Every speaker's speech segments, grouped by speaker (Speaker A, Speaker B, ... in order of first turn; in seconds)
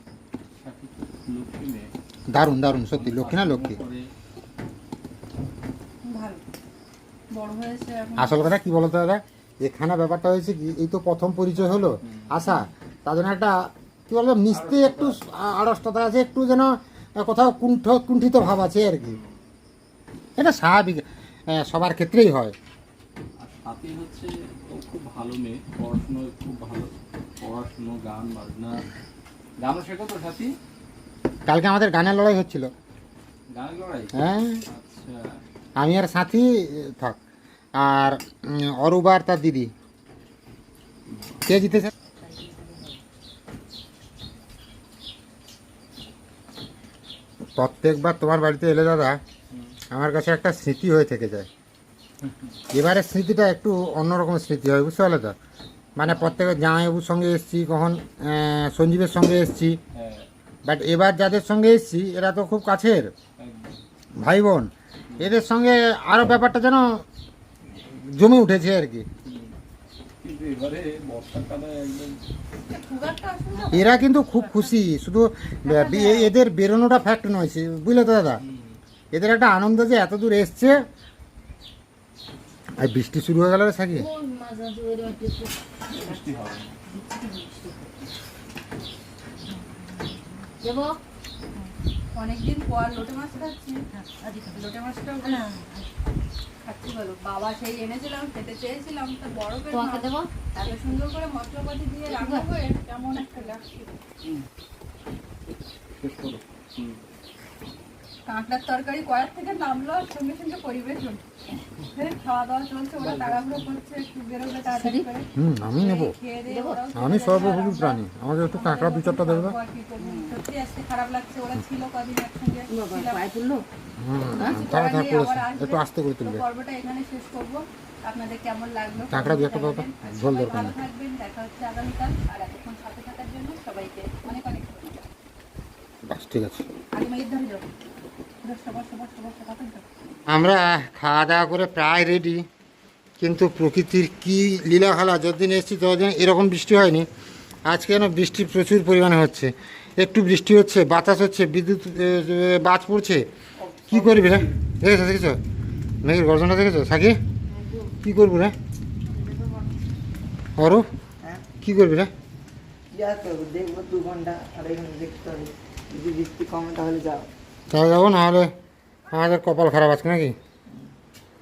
Speaker A: 0.6-1.9, 2.9-4.1, 12.0-12.5, 14.5-15.2, 19.0-19.4, 23.4-28.9, 29.6-30.5, 33.5-34.1, 34.7-35.2, 49.5-49.7, 52.2-52.5, 56.0-56.6, 59.9-60.3, 63.4-63.8, 69.2-69.5, 70.2-72.2, 78.4-78.8, 85.9-86.8, 106.0-107.0, 113.0-113.7
Speaker B: 2.3-3.8, 8.2-19.2, 20.4-22.5, 31.5-32.7, 34.1-34.6, 35.8-37.2, 37.8-39.7, 41.5-41.9, 47.6-49.2, 49.9-51.5, 52.7-55.4, 56.0-59.8, 60.6-63.1, 64.2-66.8, 67.8-69.1, 73.7-78.4, 79.1-80.8, 82.8-84.1, 115.3-116.1, 116.9-119.6, 124.0-126.4, 129.1-130.7, 136.1-136.6, 140.3-142.4, 143.2-147.1, 147.7-153.2, 153.9-155.4, 156.0-157.2, 158.0-158.5, 160.6-160.9, 161.6-162.1, 167.7-168.5, 169.1-170.3
Speaker C: 6.0-6.4, 7.3-8.5, 72.7-74.8, 75.6-76.3, 92.1-93.8, 94.5-95.5, 96.6-103.9, 108.2-111.2, 111.9-123.3, 124.3-135.0, 136.9-137.7, 138.4-139.8
Speaker D: 42.2-43.0, 83.9-86.2, 86.9-87.9, 89.5-91.0, 93.9-95.9, 99.7-100.9, 102.0-102.5, 114.7-115.1, 116.5-116.9, 120.0-120.3, 122.7-123.6, 124.3-124.6, 159.1-159.8
Speaker E: 153.6-154.5, 162.9-167.3